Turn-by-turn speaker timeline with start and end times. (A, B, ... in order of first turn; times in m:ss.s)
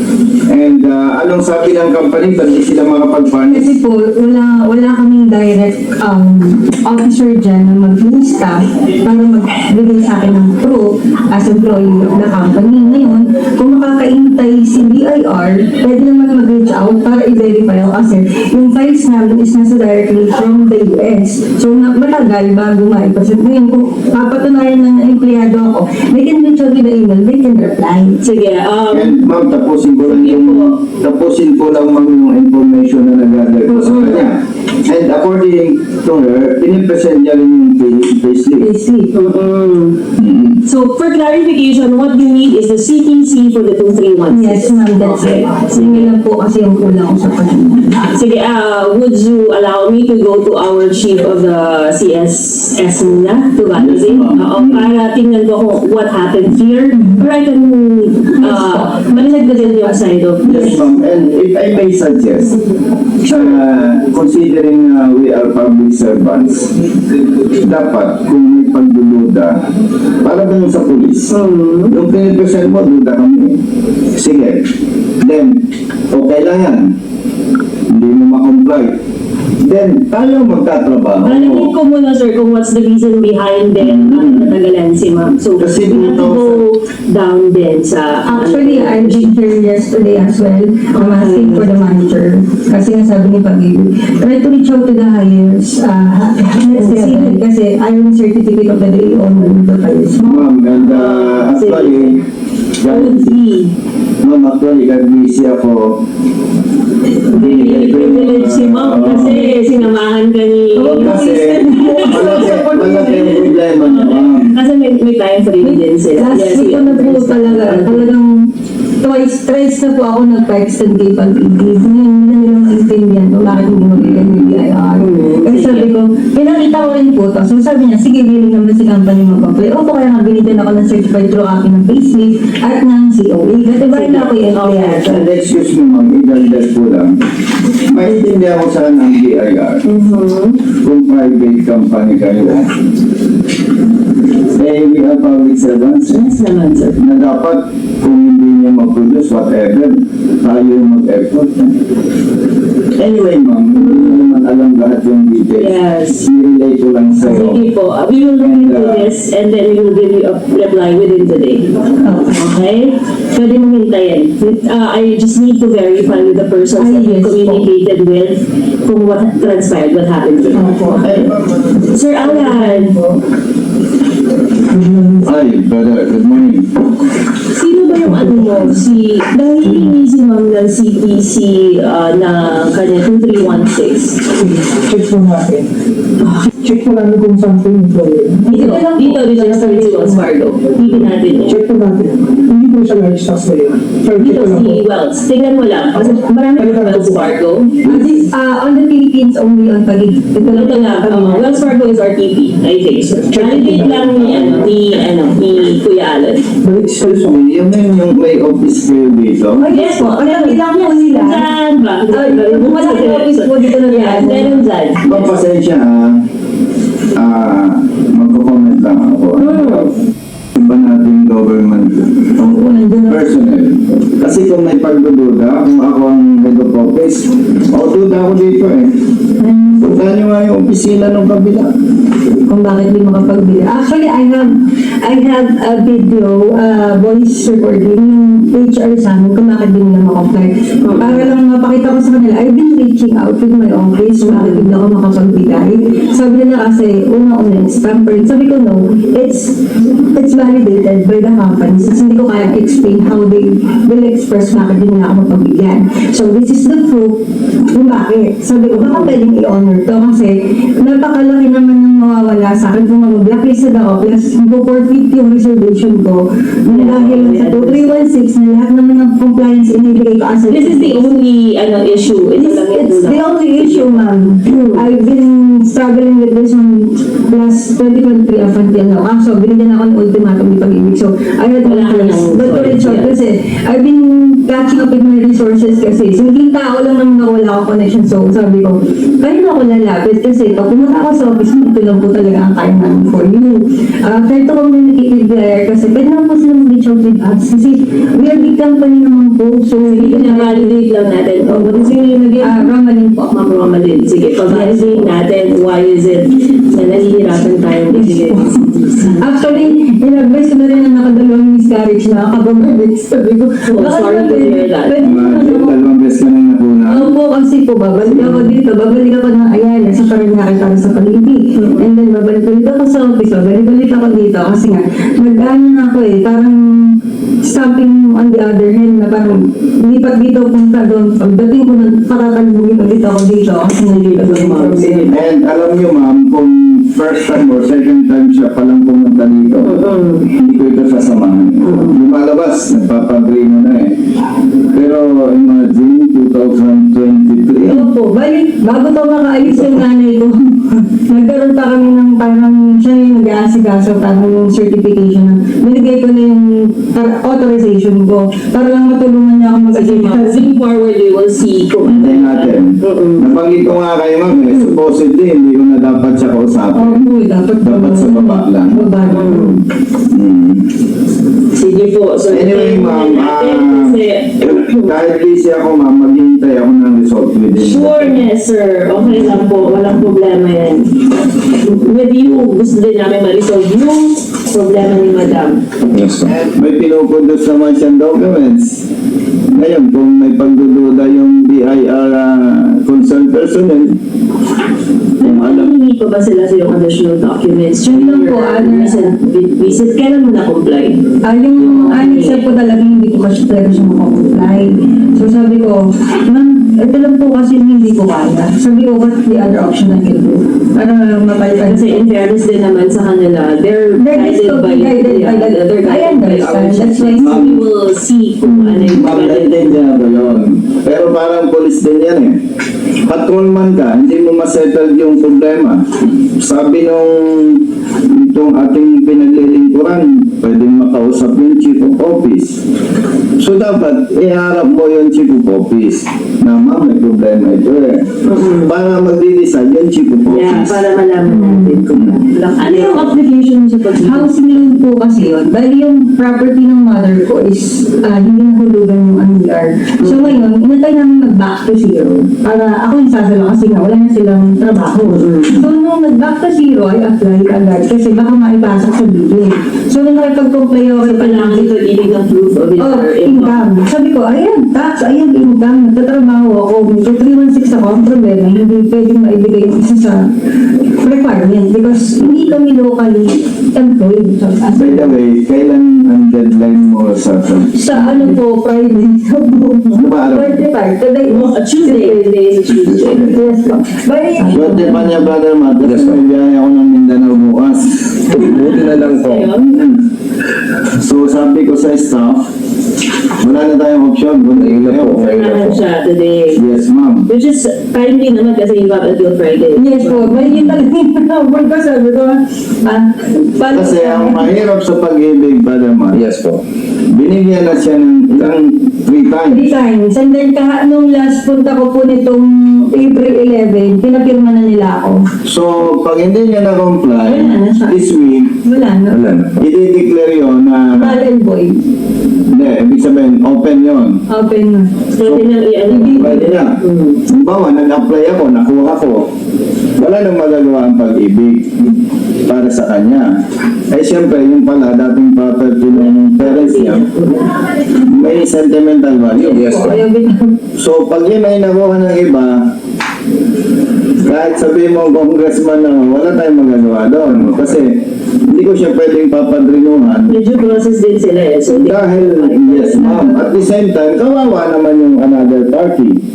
0:00.5-0:03.8 A
0:03.5-0:28.2 B
0:28.2-0:29.2 C
0:28.9-0:38.7 A
0:30.1-0:30.8 C
0:33.7-0:34.3 C
0:38.6-0:39.1 B
0:39.1-0:40.0 C
0:40.2-0:40.6 A
0:40.7-0:46.2 C
0:44.3-0:48.2 B
0:48.2-1:00.8 C
0:53.7-0:54.9 A
0:58.4-1:00.8 B
1:00.4-1:02.6 A
1:03.2-1:06.7 A
1:07.6-1:09.5 A
1:10.2-1:11.4 A
1:11.3-1:12.0 C
1:11.9-1:14.7 A
1:15.2-1:17.0 A
1:17.9-1:19.0 A
1:19.6-1:21.7 A
1:21.2-1:29.3 C
1:23.8-1:24.6 A
1:25.6-1:26.6 A
1:28.2-1:40.3 B
1:30.9-1:31.7 C
1:36.7-1:37.4 C
1:40.2-1:42.2 A
1:40.3-1:42.2 C
1:42.8-1:43.4 A
1:42.8-1:43.7 C
1:44.2-1:46.0 A
1:47.3-1:49.4 A
1:47.3-1:58.1 C
1:49.0-1:49.9 B
1:50.8-1:53.5 B
1:50.8-1:54.6 A
1:55.6-1:58.4 B
1:59.0-2:15.3 B
2:03.9-2:04.7 A
2:05.0-2:05.9 C
2:13.9-2:15.3 C
2:15.0-2:17.2 A
2:17.8-2:19.8 A
2:19.8-2:20.6 C
2:20.8-2:22.7 A
2:24.5-2:26.2 A
2:26.1-2:27.0 C
2:27.0-2:31.8 A
2:33.0-2:37.7 A
2:33.8-2:34.3 C
2:35.6-2:36.2 C
2:37.2-2:41.7 C
2:38.4-2:39.1 A
2:42.0-2:42.4 B
2:42.3-2:51.1 C
2:46.8-2:47.7 B
2:50.3-2:52.0 A
2:50.6-2:50.9 D
2:50.7-2:51.0 B
2:51.9-2:53.0 C
2:52.2-2:53.1 B
2:54.7-2:55.3 D
2:55.2-2:56.7 A
2:57.5-3:04.2 C
2:58.0-2:58.8 D
3:04.4-3:05.7 D
3:06.2-3:06.5 C
3:06.6-3:09.0 D
3:08.5-3:10.3 B
3:08.5-3:11.6 C
3:10.9-3:14.8 D
3:14.2-3:17.8 C
3:15.9-3:17.4 D
3:17.8-3:21.8 B
3:20.4-3:26.5 C
3:23.3-3:24.8 D
3:26.6-3:27.2 D
3:27.0-3:29.7 A
3:29.6-3:31.5 B
3:29.7-3:35.3 C
3:32.1-3:34.6 B
3:35.0-3:36.2 A
3:37.1-3:39.9 A
3:39.4-3:39.9 C
3:40.6-3:42.5 A
3:42.4-3:43.3 B
3:43.0-3:49.0 A
3:49.4-3:49.8 B
3:49.8-3:51.7 A
3:52.5-4:09.6 B
4:00.8-4:01.3 C
4:04.2-4:04.7 C
4:10.1-4:31.2 B
4:18.8-4:19.1 C
4:26.7-4:28.0 C
4:30.5-4:34.9 C
4:32.4-5:00.8 B
4:41.6-4:43.2 C
4:59.8-5:02.7 C
5:02.4-5:03.3 B
5:03.3-5:09.4 C
5:04.5-5:05.1 B
5:07.9-5:08.6 B
5:09.2-5:15.8 B
5:13.7-5:15.0 C
5:15.0-5:17.1 A
5:16.9-5:35.1 B
5:18.2-5:18.6 C
5:21.6-5:21.8 C
5:33.9-5:35.1 C
5:35.0-5:44.0 A
5:39.6-5:40.3 C
5:41.6-5:42.0 C
5:44.7-5:47.9 A
5:47.6-6:00.4 B
5:59.7-6:03.3 C
6:01.8-6:07.1 A
6:06.7-6:09.6 B
6:07.6-6:08.9 A
6:09.1-6:09.6 C
6:10.1-6:10.7 A
6:11.6-6:14.9 C
6:12.3-6:18.2 A
6:17.6-6:20.9 C
6:21.6-6:25.6 C
6:25.9-6:26.3 E
6:26.2-6:28.8 A
6:29.5-6:34.0 A
6:35.2-6:41.0 C
6:35.2-6:35.7 A
6:37.9-6:39.2 B
6:41.2-6:52.0 B
6:41.6-6:42.4 C
6:51.6-6:59.7 C
6:54.0-6:57.4 B
6:57.1-6:57.7 A
6:58.4-6:59.0 B
6:58.9-7:02.4 A
7:03.1-7:12.6 A
7:13.4-7:20.8 A
7:18.3-7:18.7 C
7:20.3-7:23.2 C
7:21.3-7:21.8 B
7:21.9-7:22.2 A
7:22.6-7:41.7 B
7:23.9-7:24.3 C
7:30.0-7:30.4 C
7:35.1-7:35.6 C
7:41.0-7:43.6 C
7:42.8-7:50.3 B
7:51.0-7:55.2 B
7:54.7-7:58.4 A
7:57.8-8:02.3 B
8:00.0-8:00.6 A
8:01.3-8:03.3 C
8:03.0-8:05.2 B
8:04.5-8:08.5 A
8:05.8-8:06.2 E
8:08.3-8:09.5 E
8:08.3-8:09.8 C
8:09.6-8:10.0 A
8:10.9-8:12.5 A
8:13.4-8:15.7 A
8:14.6-8:15.8 E
8:15.2-8:16.6 C
8:16.5-8:17.3 A
8:17.3-8:20.5 C
8:19.8-8:24.5 B
8:23.7-8:26.2 A
8:26.1-8:26.6 E
8:27.1-8:29.7 A
8:29.5-8:35.2 B
8:35.4-8:38.5 A
8:37.2-8:38.0 B
8:38.6-8:39.2 B
8:39.1-8:39.6 E
8:39.6-8:41.3 A
8:41.0-8:41.8 B
8:42.5-8:44.2 A
8:44.3-8:44.9 B
8:45.2-8:47.2 C
8:45.2-8:49.3 A
8:45.9-8:46.5 B
8:50.0-8:53.3 A
8:53.9-8:57.1 A
8:55.9-8:57.5 C
8:58.0-9:00.0 A
8:59.4-9:00.5 B
8:59.5-8:59.9 E
9:00.8-9:02.6 A
9:04.2-9:10.4 A
9:07.3-9:07.7 E
9:10.3-9:13.3 C
9:11.7-9:16.2 A
9:13.0-9:13.5 B